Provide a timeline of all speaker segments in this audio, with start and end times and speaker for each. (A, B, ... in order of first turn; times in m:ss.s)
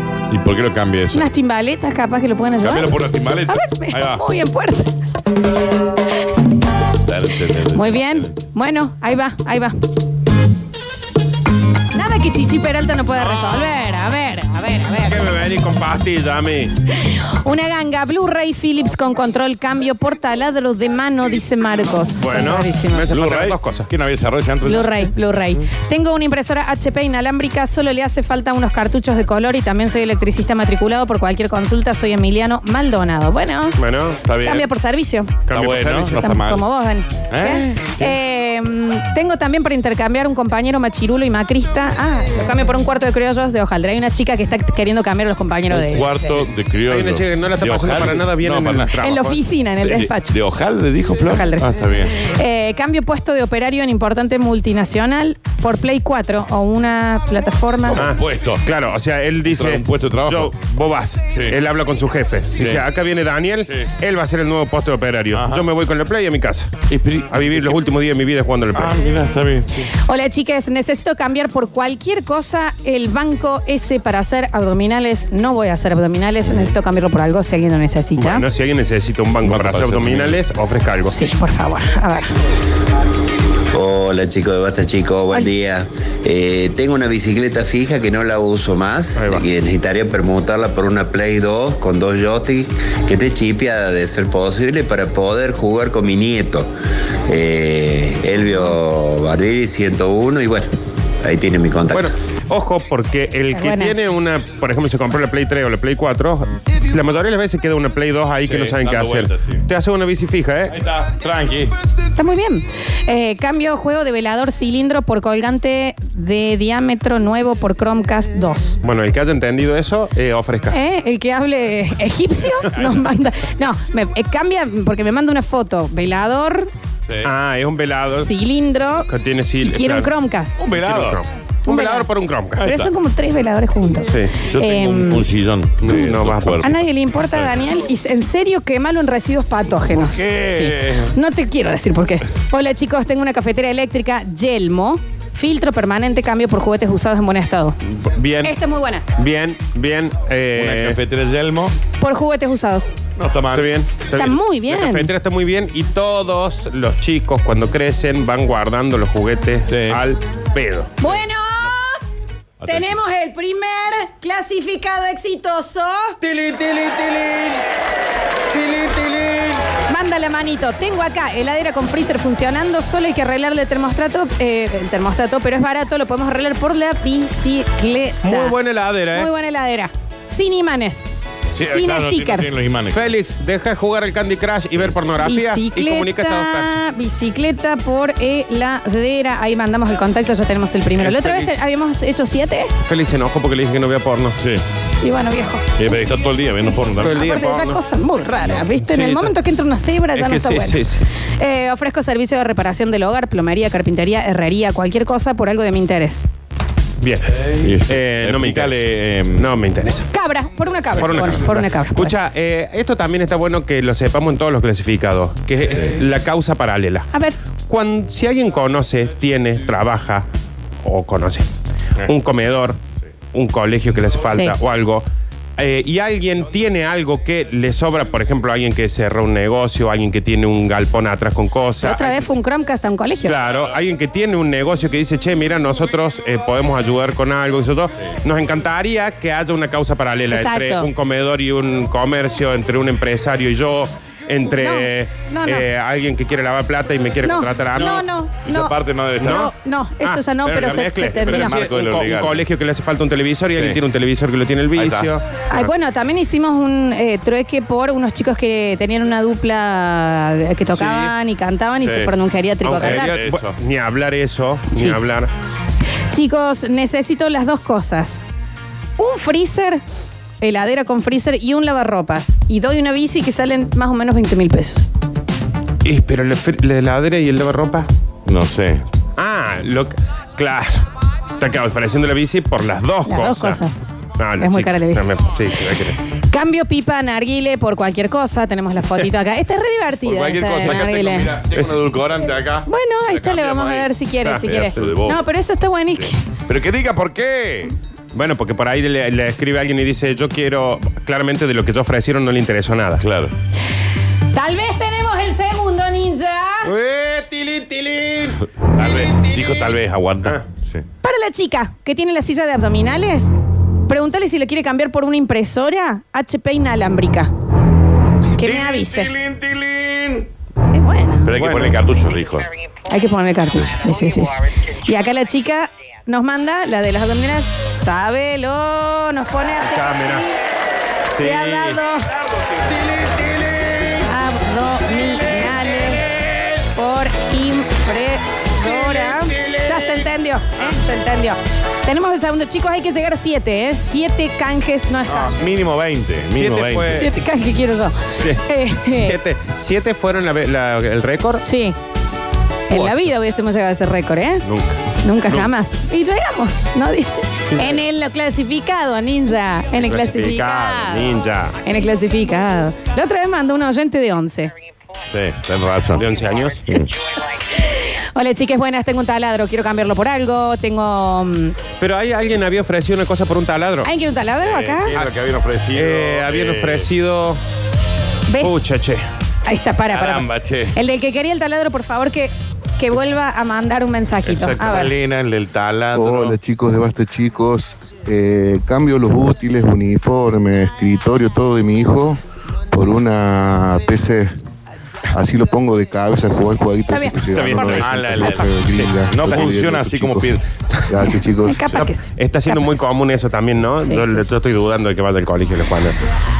0:00.3-0:01.3 A
0:01.1-0:04.9 B
0:02.6-0:04.2 A
0:07.0-0:08.3 A
0:07.7-0:09.8 B
0:11.9-0:15.2 B
0:13.2-0:13.7 C
0:15.0-0:16.7 C
0:16.9-0:23.1 B
0:22.2-0:23.9 C
0:23.1-0:25.1 A
0:24.6-0:33.8 B
0:33.8-0:34.2 C
0:34.2-0:34.7 A
0:34.4-0:35.4 B
0:35.5-0:36.2 C
0:35.5-0:36.6 A
0:36.0-0:46.3 B
0:37.3-0:38.1 A
0:45.7-0:48.9 A
0:46.9-0:49.4 C
0:49.0-0:50.3 B
0:49.8-0:52.2 A
0:51.3-0:58.0 B
0:57.9-0:58.6 A
0:58.0-1:09.0 C
0:59.4-1:00.5 A
1:02.6-1:02.8 A
1:05.3-1:05.6 A
1:06.9-1:07.7 A
1:08.7-1:09.8 A
1:10.1-1:18.4 B
1:18.2-1:21.2 C
1:19.4-1:20.4 A
1:21.1-1:22.3 B
1:23.7-1:36.7 D
1:29.2-1:29.4 C
1:37.3-1:40.7 D
1:41.2-1:42.1 D
1:41.9-1:50.8 C
1:43.5-1:43.9 B
1:48.4-1:49.6 A
1:50.7-1:51.7 A
1:52.1-1:58.8 B
1:58.8-2:00.8 C
2:00.7-2:06.7 B
2:07.0-2:07.3 A
2:07.2-2:08.3 C
2:08.2-2:09.1 B
2:09.1-2:10.1 C
2:09.6-2:10.5 B
2:10.6-2:11.2 A
2:10.7-2:12.6 C
2:11.7-2:12.1 B
2:12.6-2:12.9 A
2:12.6-2:15.2 B
2:14.1-2:14.4 C
2:14.4-2:16.8 A
2:15.8-2:16.7 C
2:16.6-2:27.8 B
2:19.9-2:21.1 A
2:27.9-2:28.5 C
2:28.4-2:29.0 B
2:29.2-2:31.0 C
2:30.5-2:31.7 A
2:32.0-2:32.9 B
2:33.2-2:33.7 A
2:33.5-2:41.2 C
2:34.2-2:35.1 B
2:39.7-2:40.0 A
2:41.0-2:41.9 B
2:42.6-2:42.9 A
2:42.6-2:46.2 B
2:46.2-2:47.5 C
2:49.8-2:58.6 B
2:58.2-2:59.3 C
2:59.1-3:01.1 B
3:01.5-3:03.1 A
3:01.6-3:02.6 B
3:02.9-3:06.8 C
3:05.2-3:12.7 B
3:11.0-3:11.5 C
3:12.8-3:14.4 C
3:14.4-3:14.6 A
3:15.0-3:15.7 B
3:15.8-3:17.2 A
3:17.0-3:26.3 B
3:17.0-3:17.8 C
3:18.6-3:19.4 C
3:20.1-3:21.0 C
3:27.0-3:30.1 C
3:27.6-3:29.5 A
3:30.1-3:32.1 B
3:31.0-3:37.1 C
3:37.7-3:40.2 C
3:40.8-3:41.5 C
3:42.0-3:42.8 C
3:43.3-3:45.0 C
3:45.6-3:52.2 C
3:51.8-3:53.3 B
3:53.2-4:08.0 C
4:00.3-4:00.9 B
4:04.5-4:05.6 B
4:07.2-4:11.6 B
4:07.7-4:09.5 A
4:09.2-4:15.7 C
4:10.5-4:12.4 A
4:14.8-4:15.1 A
4:15.5-4:23.2 B
4:20.7-4:21.1 C
4:21.8-4:22.1 A
4:22.6-4:25.3 C
4:22.7-4:23.6 A
4:26.1-4:28.2 B
4:29.0-4:29.8 B
4:30.4-4:34.8 B
4:35.8-4:37.9 C
4:38.2-4:38.8 A
4:39.2-4:40.8 C
4:41.4-4:43.6 C
4:43.0-4:43.8 B
4:44.2-4:46.0 C
4:44.4-4:45.0 B
4:46.3-4:51.3 B
4:50.0-4:53.9 A
4:52.6-4:56.2 B
4:54.2-4:54.8 C
4:54.4-4:55.2 A
4:56.5-4:57.7 A
4:58.1-5:03.0 C
5:03.0-5:03.3 A
5:04.3-5:06.7 B
5:06.6-5:08.4 C
5:08.7-5:10.8 A
5:09.0-5:09.7 C
5:11.0-5:13.4 B
5:13.9-5:17.3 B
5:18.4-5:19.1 B
5:18.4-5:20.3 A
5:20.7-5:21.3 B
5:21.2-5:22.5 A
5:21.4-5:21.7 C
5:22.9-5:30.4 B
5:29.6-5:30.2 C
5:31.1-5:31.8 C
5:31.1-5:32.1 B
5:34.0-5:36.0 B
5:36.7-5:45.4 B
5:45.1-5:47.1 A
5:46.3-5:47.1 C
5:46.9-5:49.2 B
5:48.2-5:51.4 C
5:51.4-5:51.8 B
5:52.7-5:54.4 B
5:52.7-5:53.1 C
5:54.4-5:55.5 C
5:55.0-6:01.1 B
5:59.8-6:01.6 C
6:01.6-6:04.5 B
6:05.1-6:06.0 A
6:06.0-6:06.8 C
6:07.6-6:11.6 B
6:11.8-6:13.9 C
6:13.8-6:14.9 B
6:14.4-6:16.9 A
6:15.7-6:17.4 C
6:18.3-6:18.6 B
6:18.4-6:19.0 C
6:19.4-6:24.9 B
6:19.9-6:20.7 A
6:24.2-6:24.9 C
6:24.6-6:26.4 A
6:25.9-6:32.2 E
6:32.7-6:34.3 E
6:35.1-6:40.3 E
6:36.9-6:37.7 B
6:37.3-6:38.3 C
6:37.5-6:40.4 A
6:40.9-6:41.8 E
6:41.4-6:42.6 B
6:42.2-6:46.0 C
6:43.8-6:44.2 B